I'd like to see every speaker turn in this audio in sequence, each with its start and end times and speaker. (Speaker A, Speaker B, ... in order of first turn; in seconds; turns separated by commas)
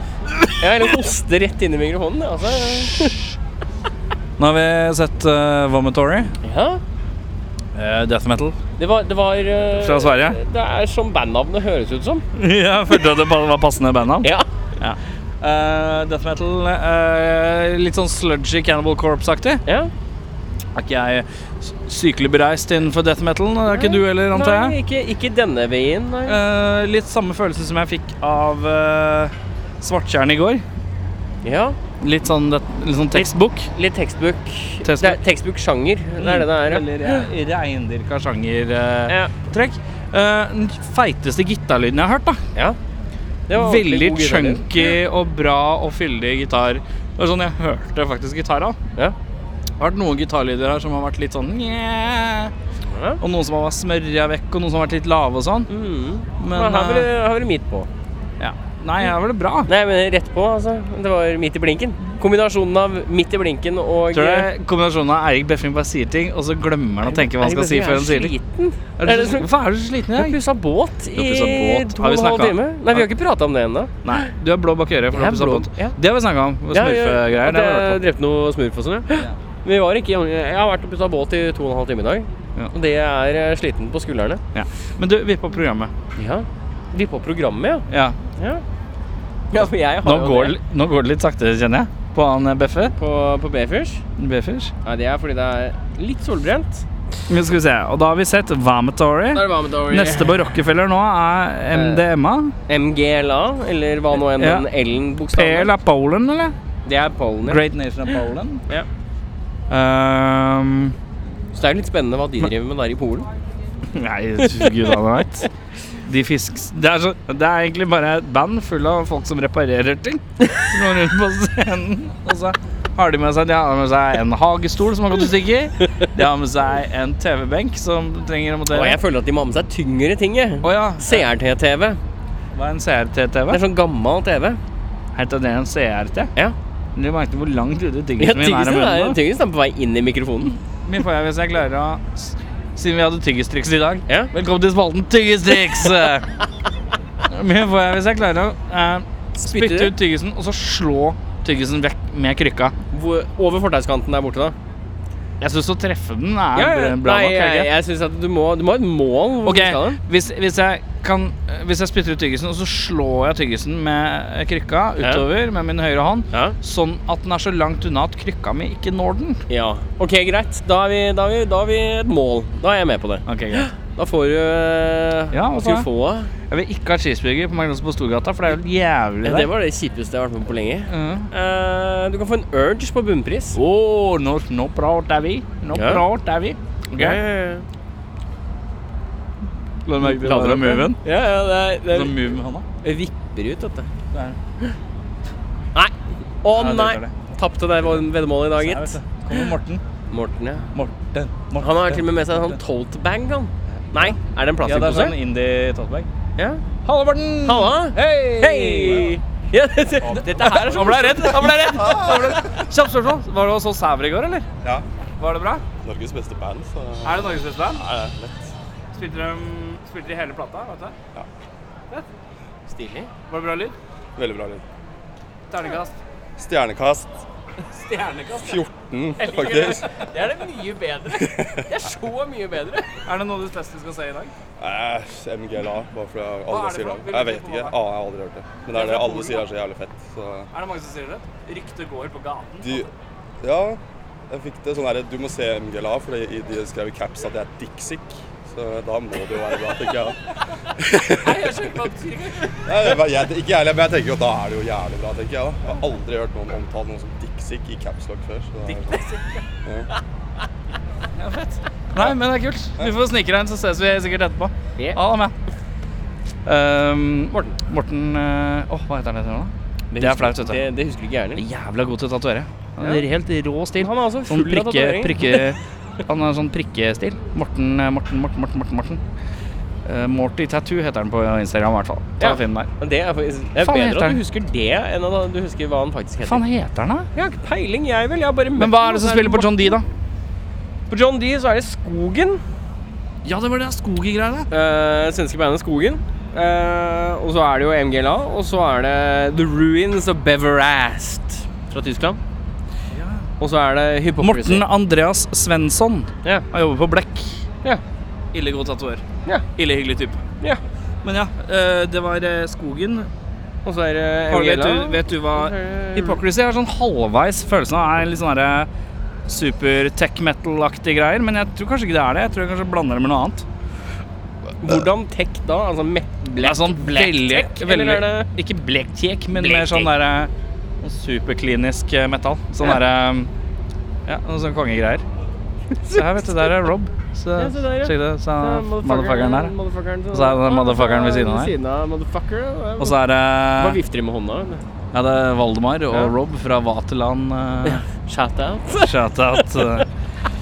Speaker A: 0.6-3.2, Speaker B: 4.4-6.3, Speaker A: 6.4-6.8, Speaker B: 7.7-8.6, Speaker A: 8.8-12.2, Speaker B: 9.8-10.3, Speaker B: 12.3-19.6, Speaker A: 19.6-19.9, Speaker B: 20.7-24.7, Speaker A: 23.7-26.4, Speaker B: 26.3-30.6, Speaker A: 31.4-31.8, Speaker B: 32.0-33.7, Speaker A: 33.1-37.3, Speaker B: 34.8-35.2, Speaker B: 36.2-42.4, Speaker A: 39.1-39.3, Speaker A: 43.5-44.9, Speaker B: 43.5-48.8, Speaker B: 49.8-52.5, Speaker A: 52.9-53.2, Speaker B: 53.2-55.7, Speaker A: 55.7-57.9, Speaker B: 56.4-57.1, Speaker B: 58.4-59.7, Speaker A: 59.7-64.5, Speaker B: 64.1-68.3, Speaker A: 67.0-69.5, Speaker B: 69.0-70.4, Speaker A: 70.2-74.3, Speaker B: 71.1-73.1, Speaker B: 74.0-78.0, Speaker A: 75.1-76.0, Speaker A: 76.7-84.4, Speaker B: 84.5-85.9, Speaker A: 86.2-87.8, Speaker B: 87.9-88.2, Speaker A: 88.4-88.6, Speaker A: 89.5-90.5, Speaker B: 90.0-92.9, Speaker A: 92.9-94.0, Speaker B: 94.2-94.7, Speaker A: 94.8-96.8, Speaker B: 97.3-102.5, Speaker A: 99.3-100.4, Speaker A: 101.7-102.0, Speaker A: 102.7-105.7, Speaker B: 104.4-104.7, Speaker B: 105.3-106.5, Speaker A: 106.8-107.6, Speaker B: 107.4-108.6, Speaker B: 109.7-110.9, Speaker A: 111.5-113.3, Speaker B: 113.9-115.5, Speaker B: 116.0-129.0, Speaker A: 128.7-132.0, Speaker B: 130.6-131.2, Speaker B: 132.5-133.6, Speaker A: 133.5-134.6, Speaker B: 135.1-136.3, Speaker B: 136.9-139.2, Speaker A: 138.2-140.6, Speaker B: 140.8-146.3, Speaker B: 147.3-152.7, Speaker A: 149.4-149.9, Speaker A: 152.9-154.6, Speaker B: 155.4-157.7, Speaker A: 156.5-160.0, Speaker B: 159.4-169.4, Speaker A: 169.5-176.3, Speaker B: 173.3-173.7, Speaker B: 175.3-175.9, Speaker B: 176.5-179.5, Speaker A: 179.2-183.6, Speaker B: 180.9-181.3, Speaker B: 183.5-187.2, Speaker A: 185.7-186.0, Speaker A: 186.9-187.6, Speaker B: 189.8-191.0, Speaker A: 190.0-192.1, Speaker B: 191.9-192.7, Speaker A: 192.8-193.9, Speaker A: 195.7-199.0, Speaker B: 196.5-197.1, Speaker B: 198.6-199.8, Speaker A: 200.1-200.7, Speaker B: 200.7-202.4, Speaker A: 201.6-205.1, Speaker B: 204.6-206.1, Speaker A: 206.4-206.6, Speaker B: 206.8-209.1, Speaker A: 207.4-212.2, Speaker B: 210.0-214.4, Speaker C: 211.7-212.4, Speaker B: 215.2-215.6, Speaker C: 215.8-218.5, Speaker B: 217.0-217.8, Speaker B: 218.9-220.9, Speaker A: 222.7-223.1, Speaker B: 223.3-223.8, Speaker C: 224.2-224.6, Speaker B: 225.5-225.9, Speaker C: 226.4-227.2, Speaker B: 227.7-228.6, Speaker C: 228.4-229.9, Speaker A: 229.2-233.0, Speaker C: 231.1-231.6, Speaker B: 233.1-234.3, Speaker C: 234.6-240.5, Speaker B: 236.5-237.7, Speaker B: 238.7-239.4, Speaker B: 240.5-242.8, Speaker C: 242.6-242.9, Speaker C: 243.4-250.2, Speaker C: 250.8-251.7, Speaker A: 251.2-252.6, Speaker C: 252.6-259.0, Speaker B: 261.1-265.3, Speaker B: 266.4-270.6, Speaker A: 269.9-271.4, Speaker B: 271.4-279.0, Speaker A: 272.8-273.0, Speaker A: 273.8-275.5, Speaker B: 279.8-282.7, Speaker A: 282.2-286.4, Speaker B: 283.6-284.2, Speaker B: 286.2-287.1, Speaker A: 287.1-289.8, Speaker B: 288.6-289.8, Speaker A: 290.9-292.4, Speaker B: 293.2-294.5, Speaker A: 294.5-302.2, Speaker B: 302.9-303.2, Speaker A: 303.4-304.6, Speaker B: 304.2-307.4, Speaker B: 308.3-309.0, Speaker B: 309.6-310.2, Speaker B: 311.0-313.1, Speaker A: 313.6-316.2, Speaker B: 314.3-318.7, Speaker B: 319.3-323.4, Speaker A: 324.6-328.3, Speaker B: 326.4-333.3, Speaker A: 329.3-329.9, Speaker B: 334.1-335.0, Speaker A: 335.7-336.6, Speaker B: 335.9-339.5, Speaker A: 337.4-343.0, Speaker B: 340.1-341.5, Speaker B: 342.8-343.8, Speaker A: 343.5-344.6, Speaker B: 344.9-347.8, Speaker A: 347.6-349.8, Speaker B: 348.8-349.9